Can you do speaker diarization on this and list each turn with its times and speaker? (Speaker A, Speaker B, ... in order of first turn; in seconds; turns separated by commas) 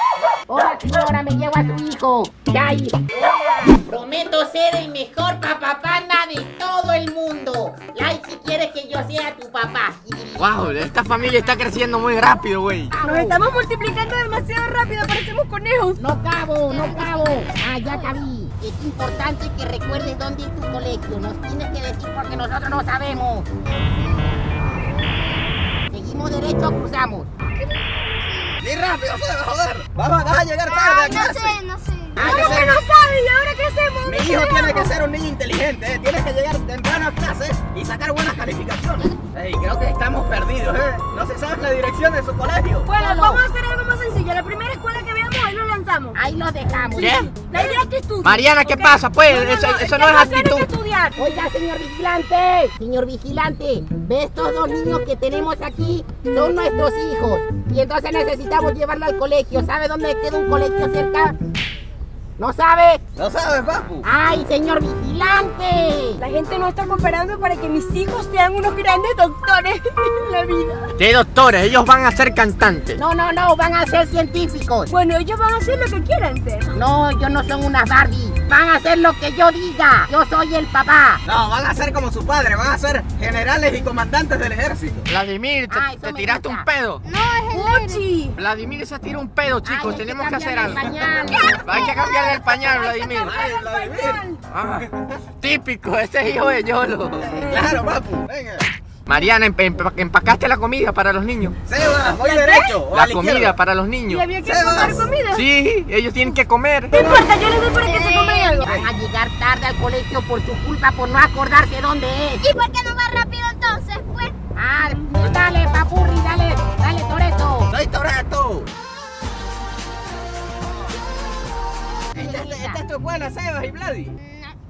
Speaker A: 0.5-11.8, Speaker B: 10.4-12.9, Speaker A: 12.9-13.5, Speaker C: 13.0-16.0, Speaker A: 16.0-23.5, Speaker D: 16.7-18.3, Speaker D: 23.6-25.5, Speaker A: 25.9-27.3, Speaker D: 27.6-28.6, Speaker E: 28.6-31.6, Speaker D: 30.7-32.6, Speaker E: 32.2-32.8, Speaker A: 32.2-32.8, Speaker C: 32.2-34.9, Speaker E: 34.0-42.9, Speaker C: 42.9-46.2, Speaker A: 43.0-43.4, Speaker A: 46.1-47.2, Speaker C: 47.0-51.3, Speaker B: 47.0-47.3, Speaker B: 48.2-50.7, Speaker A: 51.2-61.4, Speaker A: 62.4-63.0, Speaker E: 63.2-64.1, Speaker A: 64.0-66.2, Speaker C: 66.2-70.9, Speaker B: 71.0-73.0, Speaker A: 73.0-74.9, Speaker C: 74.9-76.8, Speaker A: 76.7-81.2, Speaker E: 81.2-85.1, Speaker B: 85.1-87.0, Speaker A: 85.7-86.7, Speaker D: 87.0-88.1, Speaker C: 87.5-88.4, Speaker B: 88.4-90.9, Speaker A: 89.7-91.6, Speaker D: 91.4-92.0, Speaker B: 91.6-93.4, Speaker C: 91.7-94.4, Speaker E: 93.2-94.2, Speaker B: 94.5-94.8, Speaker E: 94.7-95.0, Speaker B: 95.4-97.4, Speaker E: 97.2-98.7, Speaker C: 97.4-97.8, Speaker B: 99.1-101.5, Speaker E: 101.7-103.5, Speaker C: 102.1-102.8, Speaker B: 102.9-104.3, Speaker C: 104.1-105.5, Speaker E: 104.4-105.1, Speaker B: 105.3-107.0, Speaker C: 106.9-108.7, Speaker D: 107.8-108.7, Speaker A: 108.6-112.4, Speaker D: 112.4-114.4, Speaker A: 114.6-117.7, Speaker E: 117.7-118.7, Speaker A: 122.1-122.8, Speaker E: 122.1-124.2, Speaker D: 124.2-124.5